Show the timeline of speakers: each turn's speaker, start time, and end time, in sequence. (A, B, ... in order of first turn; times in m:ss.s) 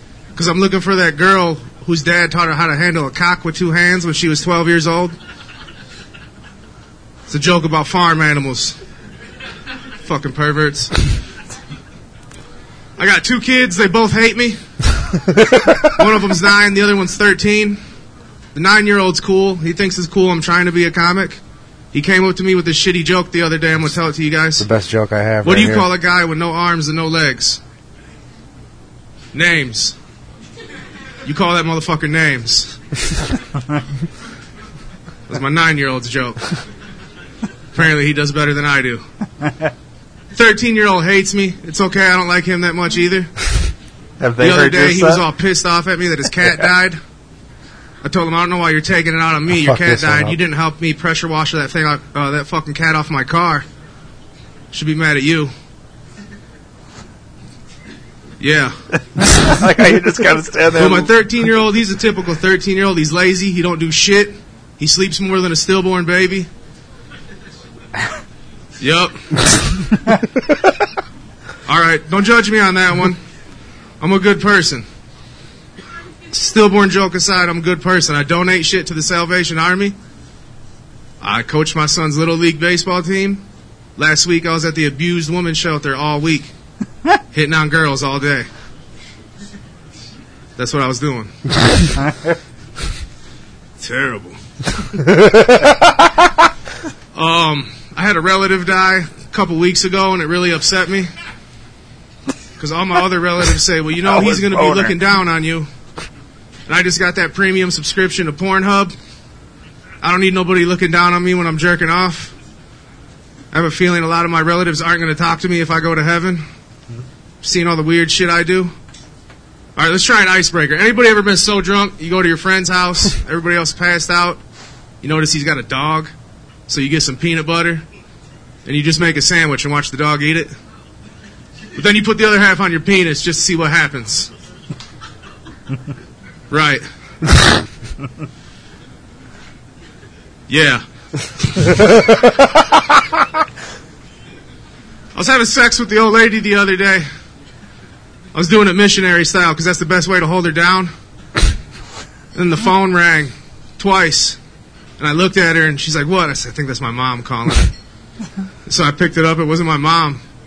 0:00.3-0:05.2 A
0:07.3-0:08.8 A
0:10.0-0:11.0 A
0:13.0-0:14.6 A
0:15.4-0:17.8 A
0:18.5-0:21.4 A
0:21.9-0:24.6 A
0:24.6-0:25.9 B
0:25.4-0:27.6 A
0:29.3-0:30.0 A
0:31.2-0:32.8 A
0:35.3-0:36.6 A
0:37.7-0:39.0 A
0:40.3-0:43.6 A
0:44.2-0:45.2 C
0:44.4-0:47.0 A
0:48.0-0:53.6 A
0:49.5-0:50.4 B
0:54.7-0:55.5 A
0:58.4-0:58.8 A
0:59.2-1:01.1 C
1:00.7-1:06.5 A
1:08.8-1:09.8 A
1:11.7-1:13.2 A
1:14.0-1:14.8 A
1:16.3-1:20.0 A
1:21.2-1:23.4 A
1:24.0-1:26.5 A
1:27.3-1:28.5 A
1:30.6-1:31.8 A
1:32.0-1:32.3 C
1:33.8-1:35.0 A
1:35.0-1:35.8 B
1:37.1-1:41.1 A
1:42.6-1:45.7 A
1:44.0-1:44.9 C
1:46.7-1:48.9 A
1:50.0-1:52.3 A
1:53.5-1:56.4 A
1:57.4-1:58.7 A
1:59.8-2:04.4 A
2:05.0-2:06.1 A
2:06.7-2:07.8 A
2:08.6-2:10.5 A
2:11.7-2:14.3 A
2:16.5-2:16.8 A
2:20.5-2:20.8 A
2:21.4-2:21.7 A
2:25.1-2:27.1 A
2:28.3-2:30.9 A
2:32.3-2:34.4 A
2:35.0-2:37.7 A
2:38.6-2:40.2 A